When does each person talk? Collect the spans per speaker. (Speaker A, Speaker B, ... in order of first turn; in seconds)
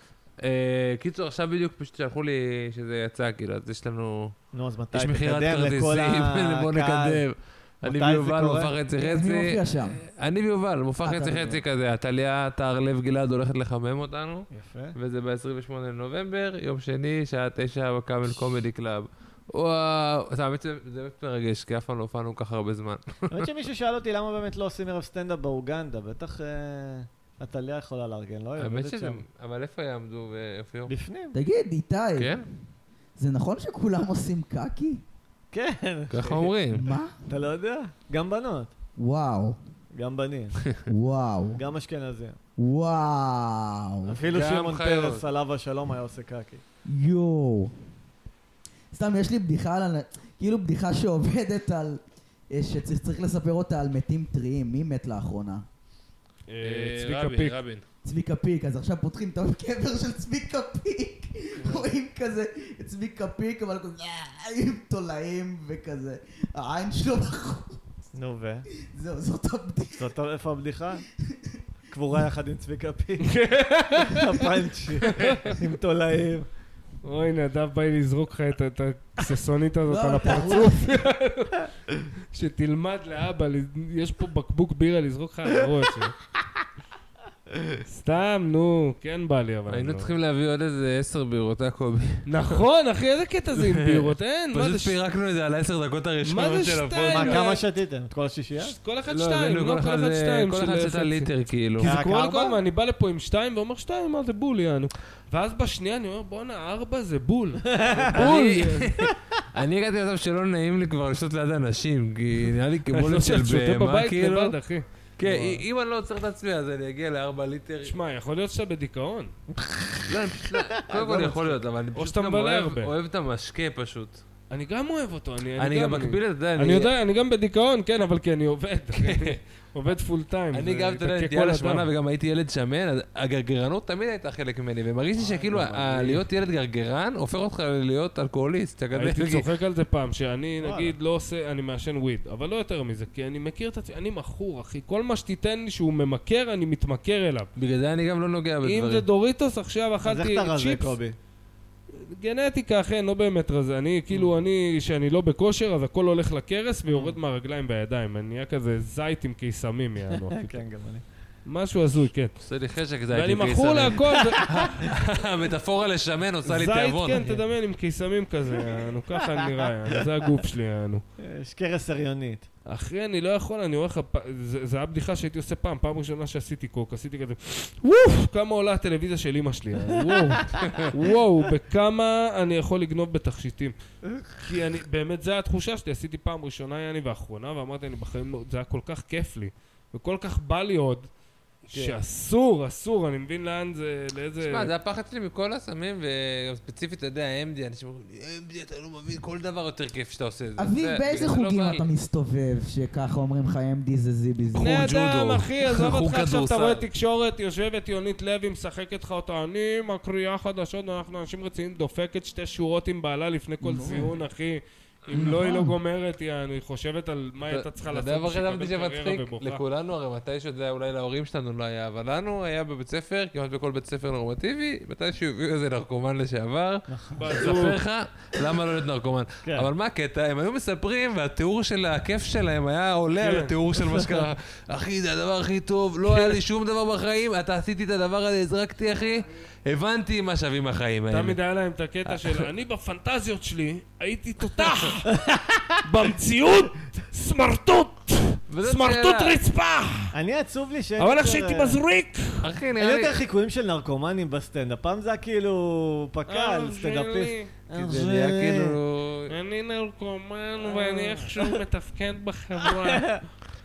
Speaker A: 0.4-4.3, 4.9-23.5, 28.6-30.9, 32.2-32.4, 36.1-36.9, 44.3-45.2, 56.6-57.8, 89.7-92.6, 93.5-97.4, 99.1-101.9, 108.1-114.5, 115.2-117.9, 120.1-124.2, 125.6-126.9, 128.9-129.4, 130.5-139.4, 147.6-149.1, 162.4-167.4, 180.6-180.9, 191.7-192.0, 194.4-201.9, 204.5-206.8, 217.5-241.4, 248.5-249.4, 252.4-253.2, 257.7-259.3
Speaker B: 4.5-7.2, 7.8-8.7, 14.5-14.9, 23.3-29.2, 30.9-31.4, 35.5-36.5, 37.3-38.7, 39.9-40.7, 41.5-42.4, 44.0-46.6, 68.1-68.7, 70.0-71.0, 71.9-73.4, 74.0-76.5, 97.1-98.7, 101.8-102.6, 107.7-108.2, 119.5-121.5, 140.6-140.9, 150.0-151.2, 156.8-157.2, 160.3-161.0, 171.2-172.5, 226.9-227.6, 233.8-234.2, 236.1-236.4, 245.2-245.8, 250.1-251.8, 252.8-258.8, 260.7-261.4, 262.7-263.2
Speaker C: 9.0-10.0, 11.0-11.6, 31.3-32.4, 33.2-35.0, 36.7-37.1, 39.0-39.6, 40.9-41.6, 42.6-44.2, 46.9-47.7, 48.9-52.0, 52.5-55.6, 58.0-67.9, 68.7-70.1, 71.2-71.6, 79.9-81.0, 200.6-204.8, 213.6-214.1, 215.1-215.8
Speaker D: 56.5-57.6, 73.2-74.5, 75.0-75.5, 77.0-81.7, 82.3-86.2, 87.9-90.1, 92.2-95.0, 96.2-97.6, 98.6-109.0, 112.9-115.6, 117.8-119.3, 122.0-122.9, 124.5-131.9, 135.2-136.2, 138.9-147.5, 148.6-151.0, 151.9-160.6, 161.4-162.3, 163.1-164.5, 166.4-171.0, 172.7-183.7, 184.3-191.1, 191.7-194.7, 204.6-219.6, 227.1-227.8, 233.2-233.5, 241.1-245.1, 245.8-250.1, 251.0-252.5, 256.3-257.5, 259.3-263.2